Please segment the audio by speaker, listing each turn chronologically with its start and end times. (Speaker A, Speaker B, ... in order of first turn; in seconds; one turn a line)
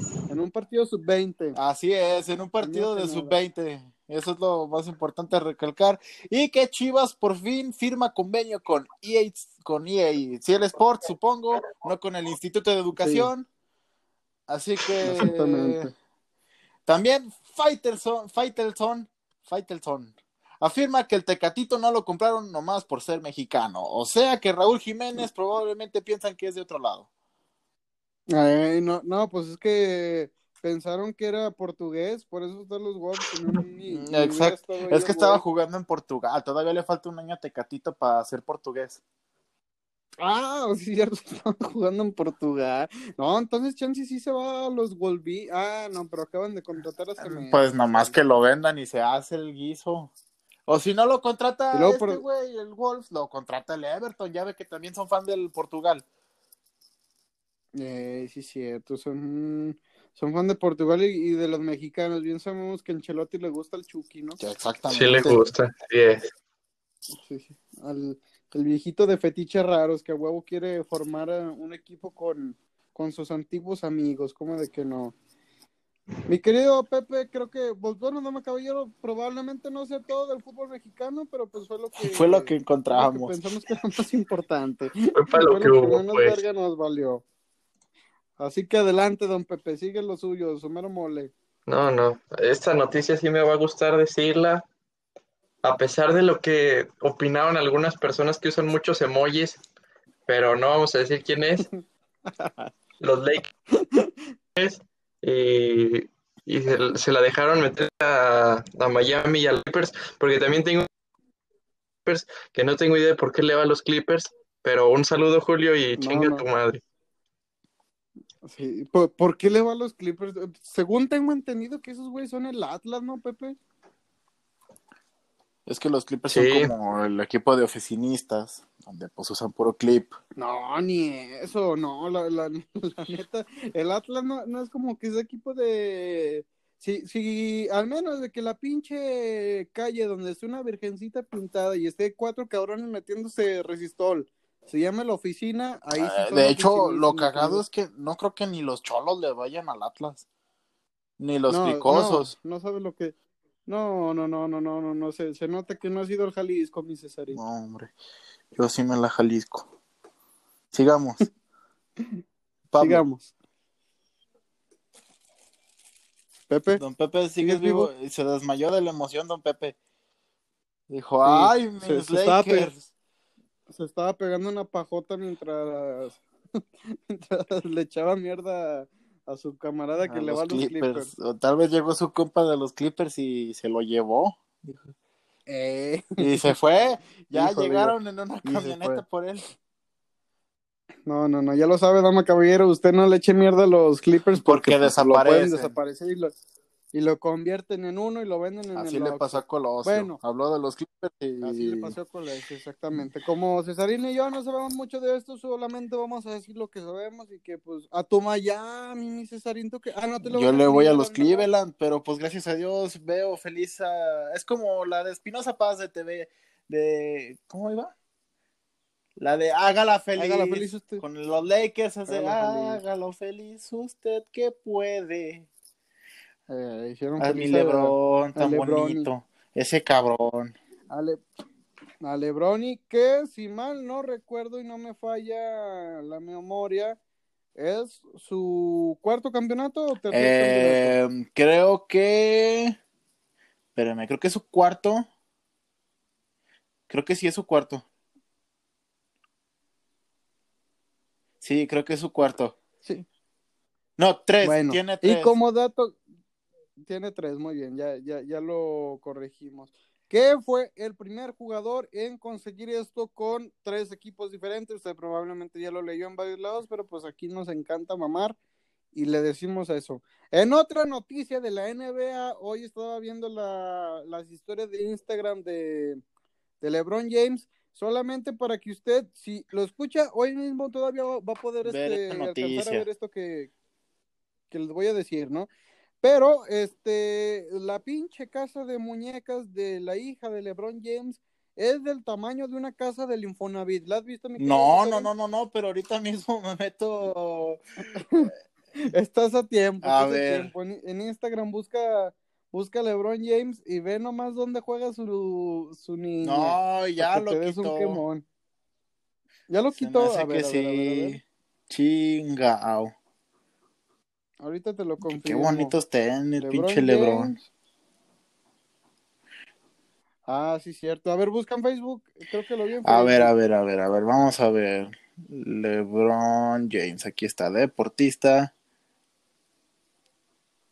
Speaker A: 0.3-1.6
Speaker B: 1.6-13.5
Speaker A: 2.6-3.4
Speaker A: 13.0-13.3
Speaker B: 14.5-15.9
Speaker A: 15.0-15.9
Speaker B: 16.9-27.1
Speaker A: 28.3-35.4
Speaker B: 33.9-39.0
Speaker A: 40.2-48.1
Speaker B: 47.2-50.1
Speaker B: 50.7-56.0
Speaker A: 51.7-52.2
Speaker A: 57.8-64.4
Speaker B: 64.4-65.4
Speaker C: 64.9-66.3
Speaker A: 67.2-75.2
Speaker A: 76.3-87.2
Speaker B: 82.0-83.4
Speaker C: 85.2-86.4
Speaker A: 88.4-91.3
Speaker C: 91.7-94.6
Speaker C: 95.6-99.6
Speaker C: 100.3-101.7
Speaker C: 103.0-103.5
Speaker C: 104.5-110.9
Speaker C: 112.1-116.8
Speaker A: 116.0-116.5
Speaker A: 118.5-123.6
Speaker B: 125.7-130.1
Speaker C: 126.3-126.7
Speaker A: 130.4-147.6
Speaker B: 145.9-150.3
Speaker B: 151.2-152.3
Speaker A: 151.5-153.1
Speaker A: 153.7-157.4
Speaker B: 157.3-157.9
Speaker B: 158.5-159.7
Speaker B: 160.7-161.2
Speaker B: 162.7-163.0
Speaker A: 162.8-163.3
Speaker A: 166.5-166.8
Speaker B: 166.8-169.8
Speaker A: 167.4-167.9
Speaker B: 170.9-172.8
Speaker A: 171.2-172.7
Speaker A: 173.7-176.2
Speaker A: 176.9-181.1
Speaker B: 180.0-184.9
Speaker A: 185.5-186.5
Speaker B: 186.2-189.4
Speaker A: 187.3-189.0
Speaker A: 191.1-196.3
Speaker B: 194.4-195.7
Speaker A: 196.9-200.2
Speaker B: 198.8-201.9
Speaker A: 201.4-211.5
Speaker B: 210.3-217.9
Speaker B: 219.2-225.5
Speaker A: 220.2-221.0
Speaker A: 222.1-222.8
Speaker A: 226.5-229.1
Speaker B: 227.2-230.6
Speaker A: 230.9-231.2
Speaker A: 232.0-237.0
Speaker A: 237.6-241.0
Speaker B: 240.1-242.8
Speaker B: 243.8-245.1
Speaker B: 246.9-247.8
Speaker B: 251.4-252.6
Speaker B: 254.0-255.4
Speaker A: 254.4-256.0
Speaker A: 256.8-268.4
Speaker A: 268.9-276.0
Speaker A: 276.6-283.5
Speaker B: 281.6-282.9
Speaker A: 284.5-285.5
Speaker A: 286.0-295.1
Speaker B: 294.4-297.6
Speaker A: 298.9-308.2
Speaker B: 299.8-300.5
Speaker B: 306.2-308.0
Speaker A: 309.5-311.2
Speaker B: 309.8-312.9
Speaker A: 314.4-315.8
Speaker B: 315.0-317.4
Speaker A: 316.4-317.4
Speaker A: 320.3-323.3
Speaker B: 322.9-328.5